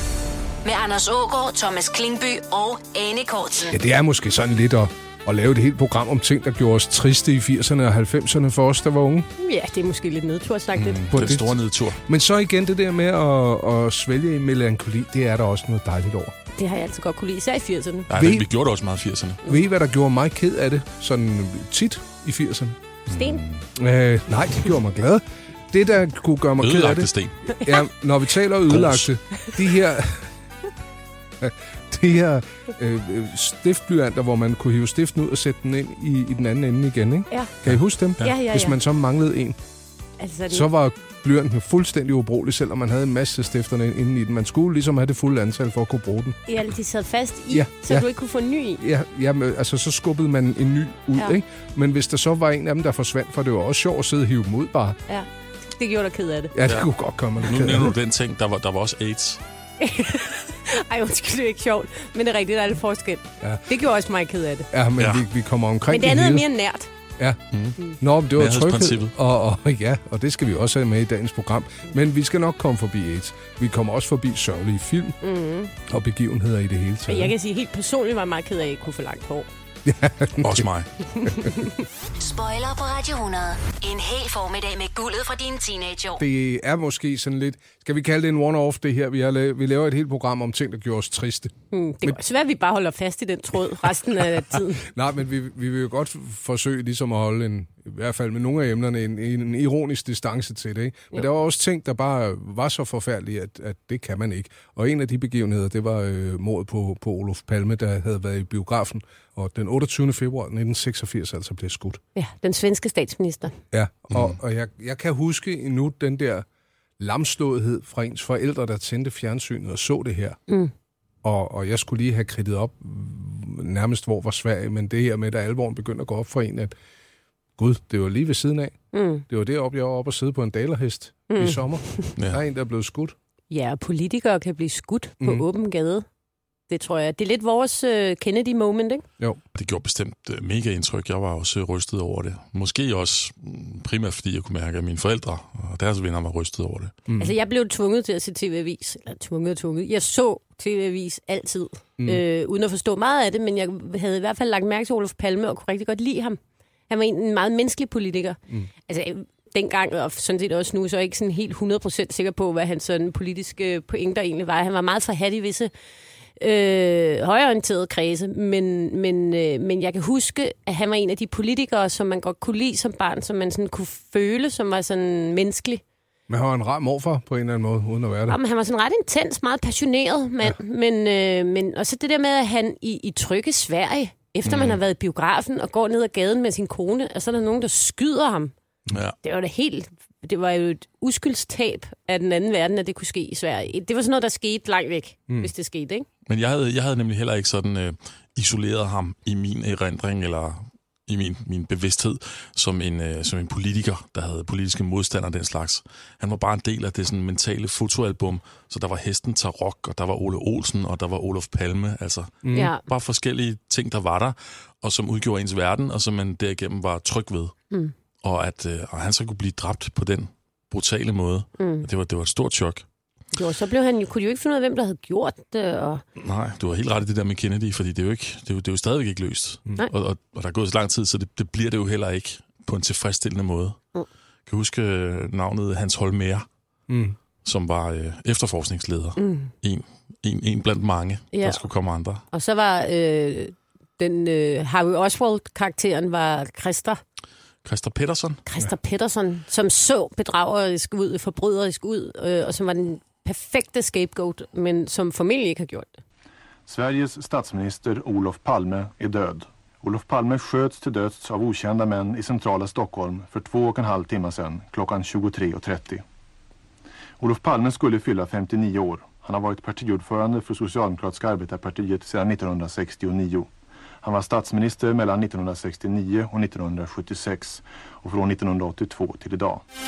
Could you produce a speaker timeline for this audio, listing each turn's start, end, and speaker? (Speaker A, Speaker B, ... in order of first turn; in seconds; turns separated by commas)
Speaker A: 0.6-3.8, Speaker B: 3.7-9.3, Speaker C: 9.4-11.1, Speaker D: 10.8-12.0, Speaker B: 11.1-11.6, Speaker B: 12.1-16.3, Speaker C: 16.6-18.1, Speaker D: 18.1-19.4, Speaker B: 18.1-18.5, Speaker B: 19.4-22.8, Speaker D: 23.1-23.6, Speaker C: 23.1-23.4, Speaker B: 23.8-27.1, Speaker D: 26.6-27.4, Speaker B: 27.6-30.3, Speaker D: 28.7-29.1, Speaker B: 31.4-39.6, Speaker C: 38.2-38.8, Speaker C: 40.2-40.7, Speaker B: 40.5-46.4, Speaker C: 46.5-48.8, Speaker B: 47.5-48.1, Speaker B: 48.8-55.0, Speaker C: 55.1-56.5, Speaker B: 56.5-58.0, Speaker D: 56.6-59.4, Speaker C: 59.8-64.7, Speaker B: 64.7-66.5, Speaker D: 65.0-65.3, Speaker C: 65.9-66.9, Speaker D: 67.5-67.8, Speaker B: 68.0-75.2, Speaker D: 68.3-69.1, Speaker C: 75.2-75.7, Speaker B: 75.9-77.3, Speaker C: 77.1-79.5, Speaker B: 79.9-80.7, Speaker D: 80.4-80.9, Speaker C: 81.2-81.7, Speaker A: 82.2-86.2, Speaker B: 86.2-92.2, Speaker C: 91.7-94.8, Speaker B: 94.3-112.0, Speaker C: 112.2-113.6, Speaker B: 113.7-116.5, Speaker B: 117.0-120.4, Speaker B: 121.2-126.7, Speaker B: 127.6-128.8, Speaker C: 128.9-129.2, Speaker B: 129.3-133.2, Speaker C: 131.3-132.1, Speaker D: 132.2-132.4, Speaker C: 133.5-136.1, Speaker C: 136.7-139.1, Speaker D: 139.6-147.0, Speaker B: 147.1-147.3, Speaker C: 147.2-165.7, Speaker C: 166.4-175.8, Speaker B: 176.3-178.4, Speaker C: 178.3-188.5, Speaker D: 184.4-184.8, Speaker D: 188.9-189.2, Speaker C: 189.2-196.1, Speaker D: 196.3-217.5, Speaker B: 212.4-212.7, Speaker C: 212.5-212.8, Speaker D: 218.2-222.8, Speaker C: 221.6-221.9, Speaker C: 223.3-226.0, Speaker D: 226.2-233.8, Speaker D: 234.5-236.5, Speaker B: 236.9-237.2, Speaker D: 237.4-242.2, Speaker C: 239.2-239.5, Speaker C: 241.3-241.6, Speaker C: 242.3-247.0, Speaker D: 247.7-248.4, Speaker C: 248.5-256.0, Speaker E: 256.7-266.0, Speaker E: 267.2-273.5, Speaker E: 274.0-279.6